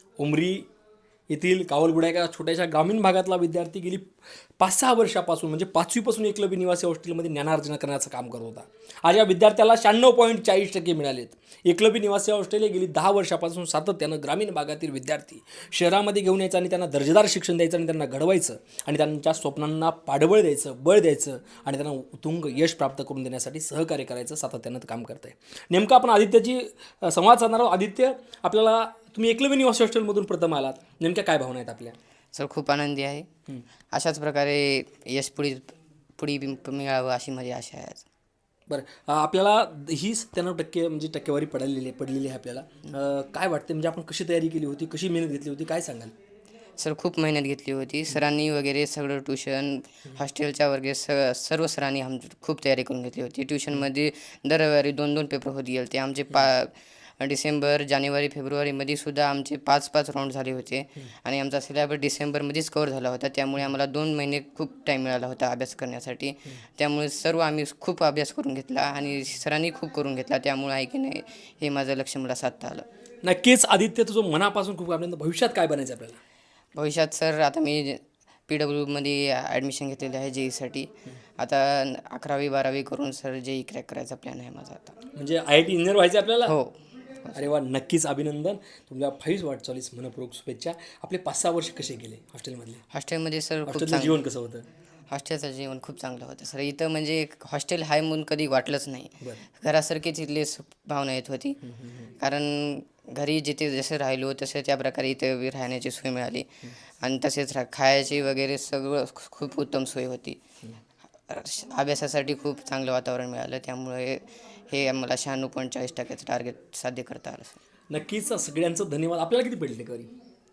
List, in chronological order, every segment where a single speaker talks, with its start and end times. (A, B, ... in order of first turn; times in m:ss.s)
0:00.2-0:00.7 A
0:01.3-0:32.0 A
0:32.3-0:33.2 B
0:33.9-0:38.0 B
0:38.7-0:46.1 A
0:46.8-1:12.8 B
1:13.2-1:16.2 A
1:16.8-1:25.0 B
1:25.1-1:26.5 A
1:26.5-1:27.5 B
1:27.3-1:32.8 A
1:32.9-1:34.2 B
1:33.6-1:34.6 A
1:35.1-1:41.6 B
1:41.6-1:42.1 A
1:42.2-1:46.5 B
1:47.0-1:50.4 B
1:51.3-1:57.6 B
1:57.9-2:00.1 A